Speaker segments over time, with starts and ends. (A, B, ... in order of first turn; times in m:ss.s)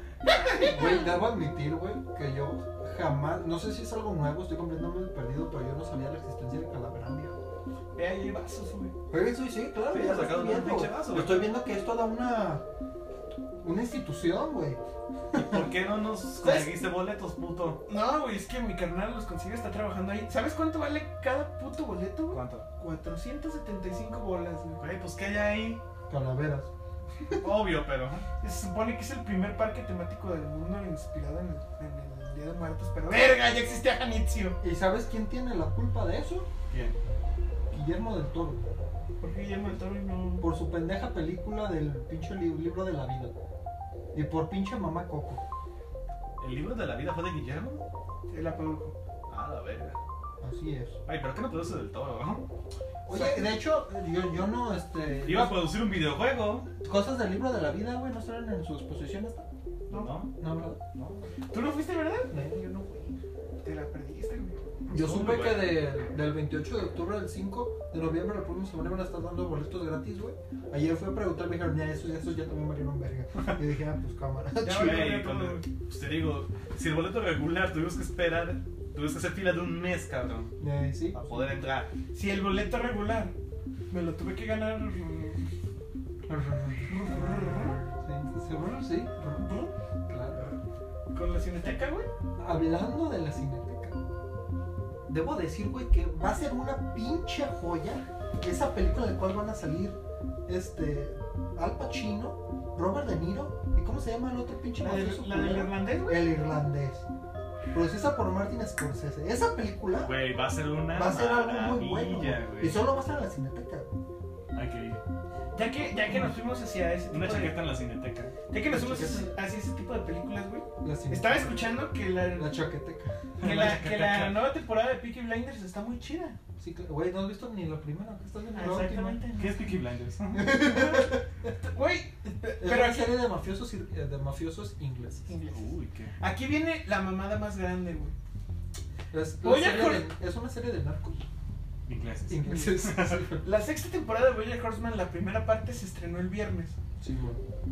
0:00.2-0:01.0 A
0:00.5-0:07.4 B
0:08.0-0:08.9 A
0:09.1-0:12.6 B
0:09.9-0:11.5 C
0:13.6-0:14.8 B
0:15.3-0:15.7 B
0:15.3-0:17.8 C
0:16.4-0:16.7 A
0:17.9-0:24.8 A
0:22.3-0:22.7 C
0:24.8-0:25.8 C
0:26.1-0:26.7 B
0:27.4-0:28.3 C
0:28.4-0:34.6 A
0:34.6-0:36.5 B
0:36.7-0:37.0 C
0:37.7-0:38.6 B
0:39.2-0:40.5 A
0:40.4-0:43.3 B
0:44.1-0:45.4 B
0:46.4-0:47.8 C
0:48.3-0:49.0 A
0:49.3-0:50.0 C
0:50.4-0:51.0 B
0:51.1-0:52.4 C
0:53.1-0:55.7 B
0:53.1-0:53.5 A
0:55.2-0:56.7 C
0:56.8-0:59.5 B
0:59.9-1:00.1 A
0:59.9-1:00.3 C
1:00.4-1:00.8 B
1:00.9-1:01.4 C
1:01.5-1:02.3 A
1:02.3-1:03.2 B
1:03.6-1:04.6 A
1:04.9-1:15.2 B
1:04.9-1:05.8 C
1:14.6-1:15.6 A
1:14.7-1:20.5 C
1:20.6-1:21.2 B
1:21.1-1:21.9 C
1:22.1-1:23.4 A
1:23.9-1:25.5 A
1:26.3-1:30.5 B
1:26.9-1:27.8 A
1:31.1-1:32.1 A
1:32.4-1:34.0 B
1:35.1-1:47.1 B
1:44.8-1:46.3 A
1:47.7-1:50.2 B
1:50.0-1:52.8 C
1:50.9-1:54.0 B
1:54.5-1:55.0 C
1:55.5-1:57.6 A
1:57.1-1:58.3 C
1:58.5-2:02.6 A
1:58.7-1:59.4 B
2:00.8-2:01.6 B
2:02.3-2:03.2 B
2:03.4-2:04.4 C
2:03.4-2:06.4 A
2:06.6-2:09.2 B
2:08.6-2:09.5 A
2:09.4-2:10.5 C
2:10.3-2:11.3 B
2:10.6-2:13.2 A
2:12.6-2:15.3 B
2:15.3-2:18.1 A
2:15.5-2:16.1 C
2:19.1-2:21.2 B
2:19.4-2:20.1 A
2:21.9-2:23.3 C
2:22.3-2:23.4 B
2:23.4-2:26.8 A
2:27.0-2:27.4 B